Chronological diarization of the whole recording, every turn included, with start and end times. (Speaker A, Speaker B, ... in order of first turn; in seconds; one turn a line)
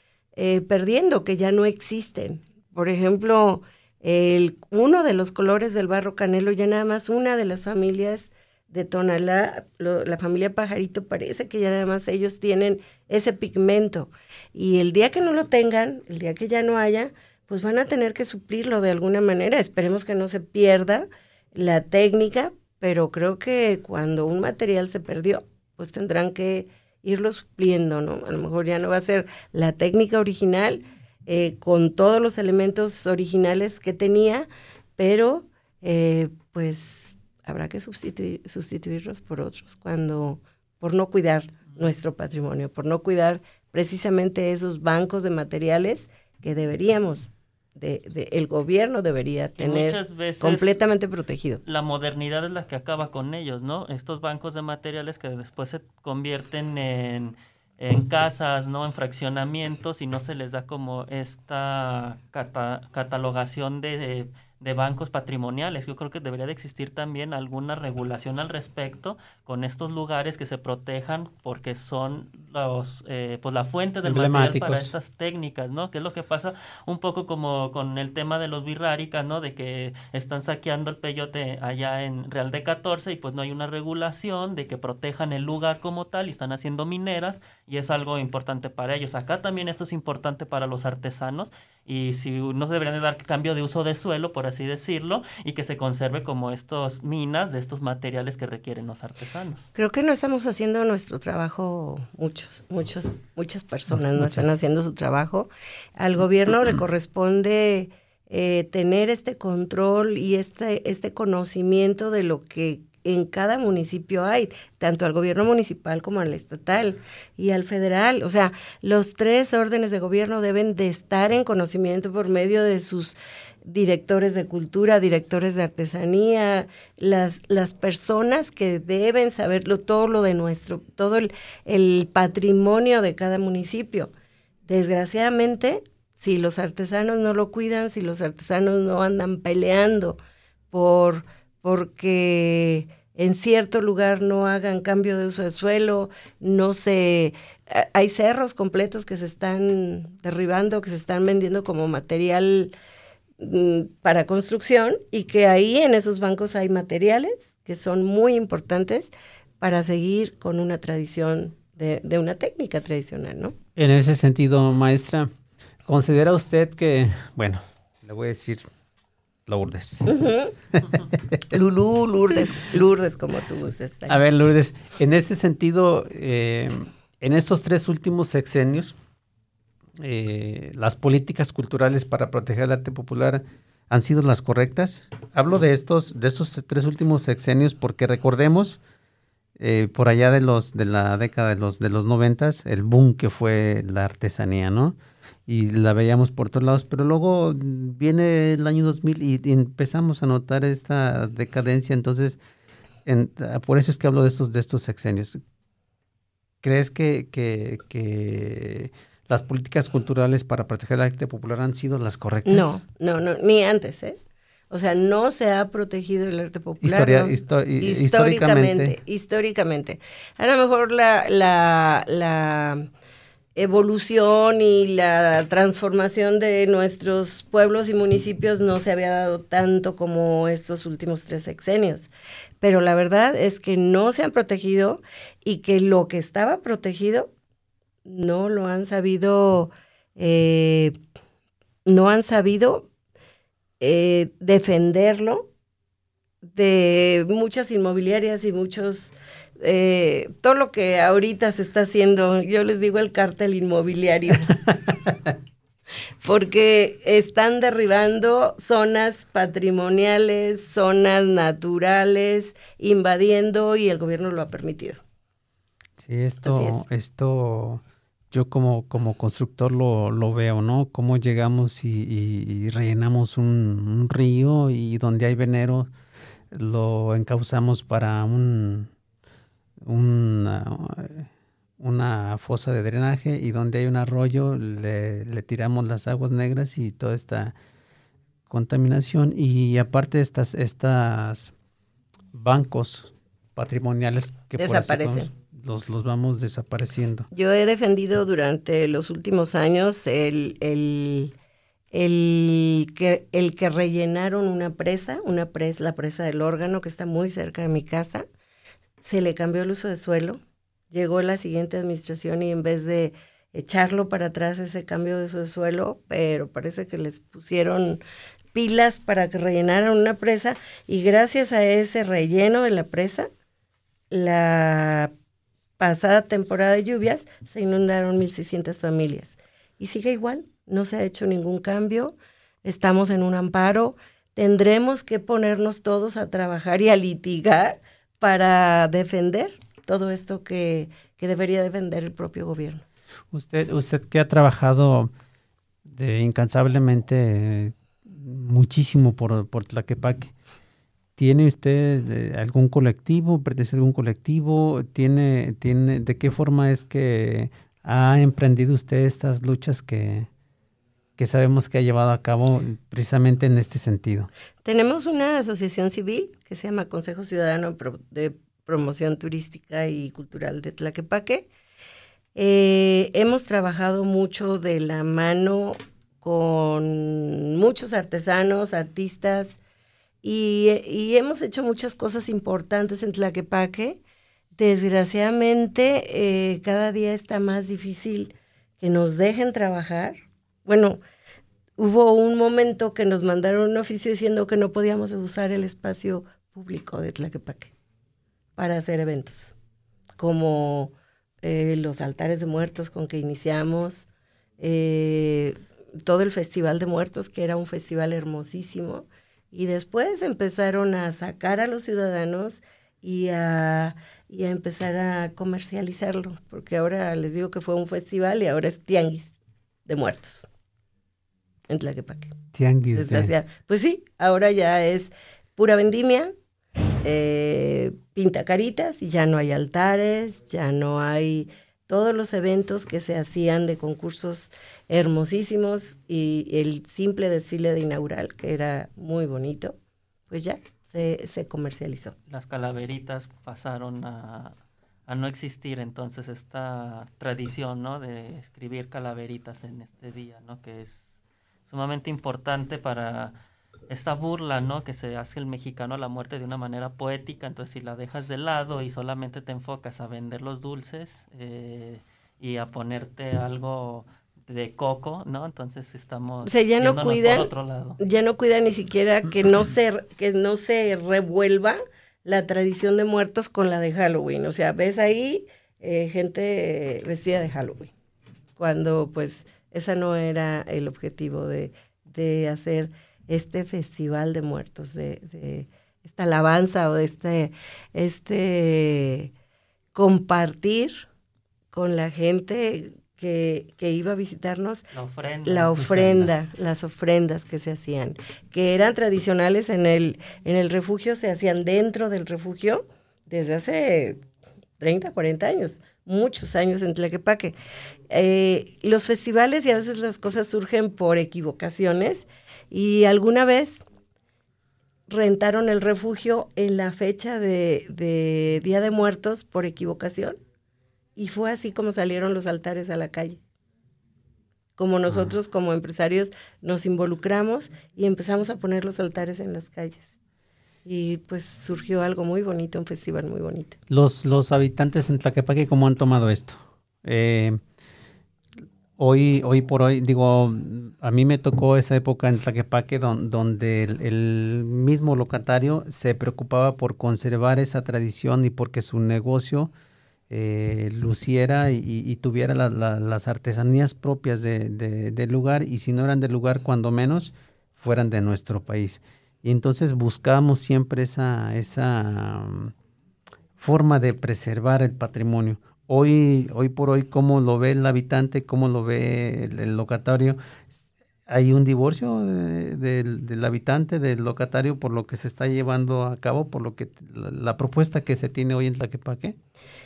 Speaker A: 0.4-51.6
Speaker B: 49.6-50.8
Speaker B: 51.7-99.7
Speaker C: 74.0-74.9
Speaker A: 99.8-134.1
Speaker C: 103.9-104.5
Speaker A: 134.7-140.2
Speaker A: 140.7-152.7
Speaker A: 153.4-163.6
Speaker C: 163.8-165.3
Speaker C: 165.8-168.7
Speaker C: 169.5-170.1
Speaker A: 170.1-170.6
Speaker C: 170.8-171.4
Speaker A: 171.5-174.2
Speaker C: 174.1-179.0
Speaker C: 180.0-188.8
Speaker C: 189.6-195.0
Speaker C: 195.5-202.4
Speaker C: 203.1-205.4
Speaker C: 206.6-212.8
Speaker A: 212.5-214.2
Speaker A: 214.7-222.9
Speaker C: 216.8-219.0
Speaker A: 223.6-232.1
Speaker A: 232.6-237.3
Speaker A: 238.1-241.0
Speaker A: 241.9-242.9
Speaker A: 243.8-245.5
Speaker A: 246.4-254.6
Speaker C: 254.5-255.3
Speaker A: 256.2-265.0
Speaker C: 266.0-275.9
Speaker A: 266.4-266.8
Speaker C: 276.5-278.9
Speaker C: 279.9-281.3
Speaker C: 281.8-287.5
Speaker C: 288.5-291.5
Speaker C: 292.3-297.3
Speaker A: 294.6-295.3
Speaker A: 297.3-301.3
Speaker A: 301.9-308.3
Speaker A: 309.0-310.4
Speaker A: 310.9-318.0
Speaker A: 318.5-323.3
Speaker A: 324.1-325.1
Speaker A: 325.8-342.8
Speaker C: 343.3-345.1
Speaker C: 345.9-350.3
Speaker C: 351.2-360.3
Speaker C: 361.2-364.3
Speaker A: 364.6-371.5
Speaker A: 372.4-379.6
Speaker A: 380.2-384.0
Speaker A: 384.6-391.0
Speaker A: 391.8-397.7
Speaker A: 398.6-399.5
Speaker A: 400.2-404.1
Speaker A: 404.6-419.3
Speaker A: 419.9-420.5
Speaker A: 421.7-422.3
Speaker C: 422.5-423.3
Speaker A: 422.9-426.3
Speaker A: 427.0-439.8
Speaker A: 440.3-442.1
Speaker B: 442.3-444.6
Speaker B: 445.1-453.3
Speaker B: 453.9-468.0
Speaker A: 466.4-477.9
Speaker A: 478.6-489.3
Speaker A: 489.9-491.1
Speaker A: 491.7-494.8
Speaker B: 494.9-496.3
Speaker A: 495.4-504.2
Speaker A: 504.8-507.6
Speaker A: 508.1-513.8
Speaker A: 515.1-520.4
Speaker A: 521.2-523.4
Speaker A: 524.8-530.1
Speaker A: 530.9-533.8
Speaker C: 533.9-537.6
Speaker C: 539.0-549.7
Speaker C: 550.3-562.7
Speaker C: 563.6-570.4
Speaker C: 571.3-579.4